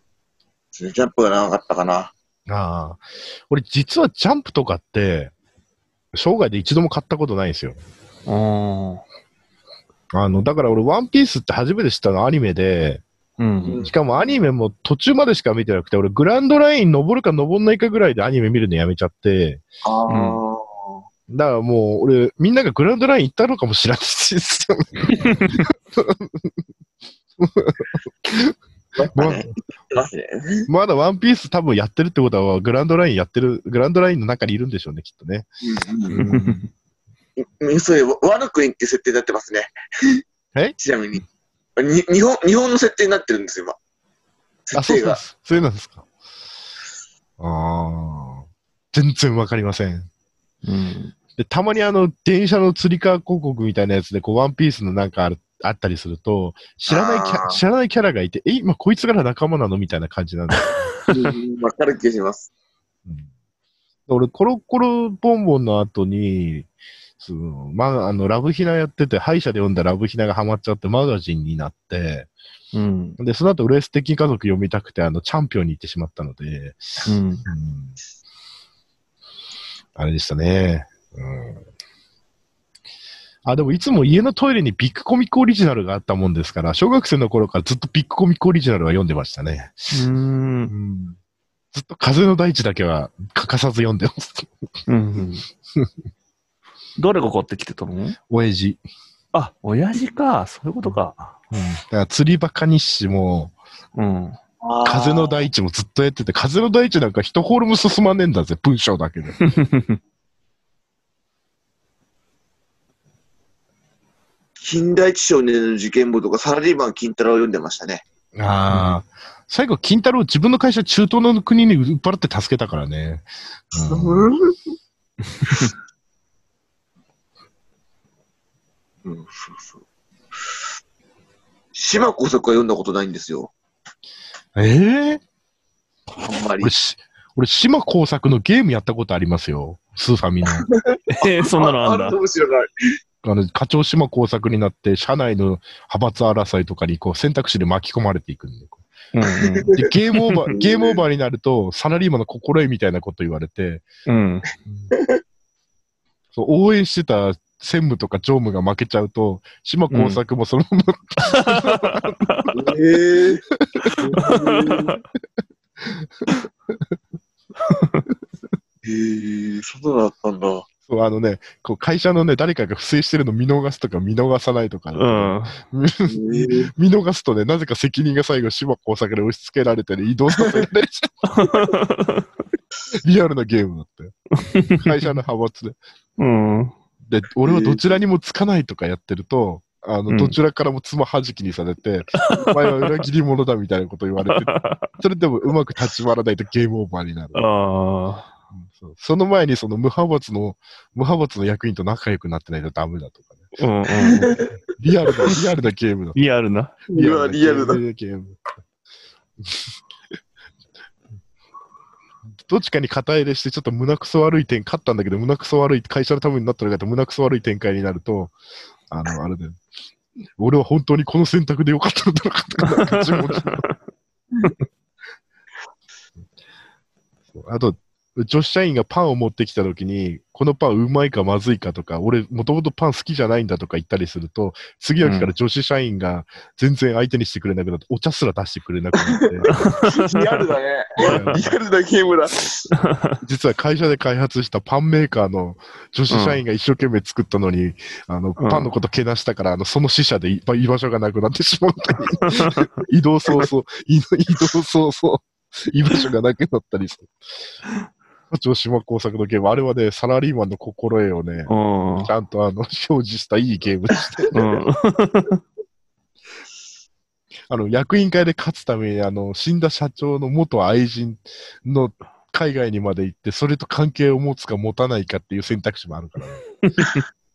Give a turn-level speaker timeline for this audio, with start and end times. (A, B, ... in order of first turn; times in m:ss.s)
0:00.7-0:02.1 A
0:02.5-0:05.3 B
0:06.1-0:07.8 B
0:08.3-0:09.0 C
0:10.1-0:13.0 B
0:13.4-0:13.8 C
0:13.7-0:14.4 A
0:13.8-0:19.6 B
0:19.8-0:21.0 A
0:20.1-0:20.4 C
0:21.3-0:26.5 B
0:25.1-0:25.6 C
0:27.4-0:28.5 B
0:29.0-0:30.7 A
0:29.1-0:29.5 B
0:30.7-0:35.5 B
0:35.6-0:36.3 A
0:36.1-0:36.6 B
0:36.3-0:36.7 C
0:37.4-0:40.2 A
0:40.8-0:41.2 A
0:41.8-0:43.8 A
0:44.7-0:45.2 A
0:44.7-0:46.1 B
0:47.4-0:50.1 B
0:50.6-0:51.1 C
0:51.4-1:00.9 B
0:56.9-0:57.6 A
1:01.1-1:02.5 A
1:04.1-1:06.7 B
1:07.2-1:12.3 B
1:12.7-1:13.2 C
1:13.2-1:16.8 B
1:17.0-1:17.4 C
1:17.5-1:18.0 B
1:20.0-1:21.6 B
1:23.4-1:29.9 B
1:29.9-1:30.7 C
1:30.7-1:31.2 B
1:31.7-1:34.5 B
1:34.9-1:35.4 C
1:37.0-1:38.2 C
1:38.3-1:38.8 B
1:39.3-1:41.3 C
1:41.5-1:43.6 B
1:44.0-1:44.4 C
1:44.6-1:45.5 A
1:44.8-1:49.4 B
1:49.4-1:50.0 C
1:54.6-1:58.0 A
1:58.3-2:04.3 B
1:58.7-1:59.0 C
2:03.7-2:04.5 A
2:05.4-2:05.7 C
2:09.0-2:09.8 A
2:11.7-2:13.5 A
2:14.6-2:15.2 B
2:16.2-2:16.7 A
2:16.6-2:20.7 B
2:20.6-2:22.7 A
2:21.1-2:22.2 C
2:23.2-2:28.8 B
2:29.1-2:30.5 C
2:29.2-2:29.9 A
2:29.8-2:33.9 B
2:30.5-2:31.0 A
2:34.1-2:34.5 C
2:34.7-2:34.9 B
2:34.9-2:35.2 A
2:36.3-2:42.2 B
2:39.9-2:40.2 C
2:41.3-2:42.5 C
2:42.5-2:43.4 A
2:43.5-2:44.4 B
2:44.0-2:45.0 C
2:44.1-2:45.0 A
2:45.8-2:47.0 B
2:47.6-2:48.1 C
2:48.8-2:50.7 A
2:50.9-3:01.4 B
2:55.0-2:55.6 C
2:56.1-2:56.7 A
3:01.3-3:02.3 C
3:02.9-3:04.2 B
3:04.3-3:04.9 C
3:04.7-3:05.8 B
3:06.2-3:06.7 C
3:07.1-3:17.4 B
3:07.4-3:07.8 A
3:10.1-3:10.4 C
3:12.3-3:12.9 C
3:14.3-3:14.9 C
3:17.4-3:18.3 C
3:18.5-3:23.5 B
3:23.6-3:24.3 C
3:24.1-3:24.5 A
3:24.8-3:26.2 B
3:26.2-3:26.8 C
3:26.9-3:27.8 A
3:26.9-3:28.4 B
3:32.4-3:38.4 B
3:38.9-3:39.6 B
3:40.4-3:43.7 B
3:42.8-3:43.8 C
3:47.3-3:59.5 B
3:55.0-3:55.3 C
3:59.0-4:02.7 A
3:59.5-4:00.4 C
4:01.0-4:01.5 B
4:01.0-4:01.4 C
4:02.8-4:03.2 C
4:03.2-4:17.2 B
4:06.1-4:06.4 C
4:08.4-4:08.7 C
4:12.2-4:12.6 C
4:18.3-4:21.5 B
4:21.5-4:22.1 C
4:22.0-4:24.4 B
4:24.3-4:25.4 C
4:27.5-4:36.4 B
4:36.6-4:37.0 C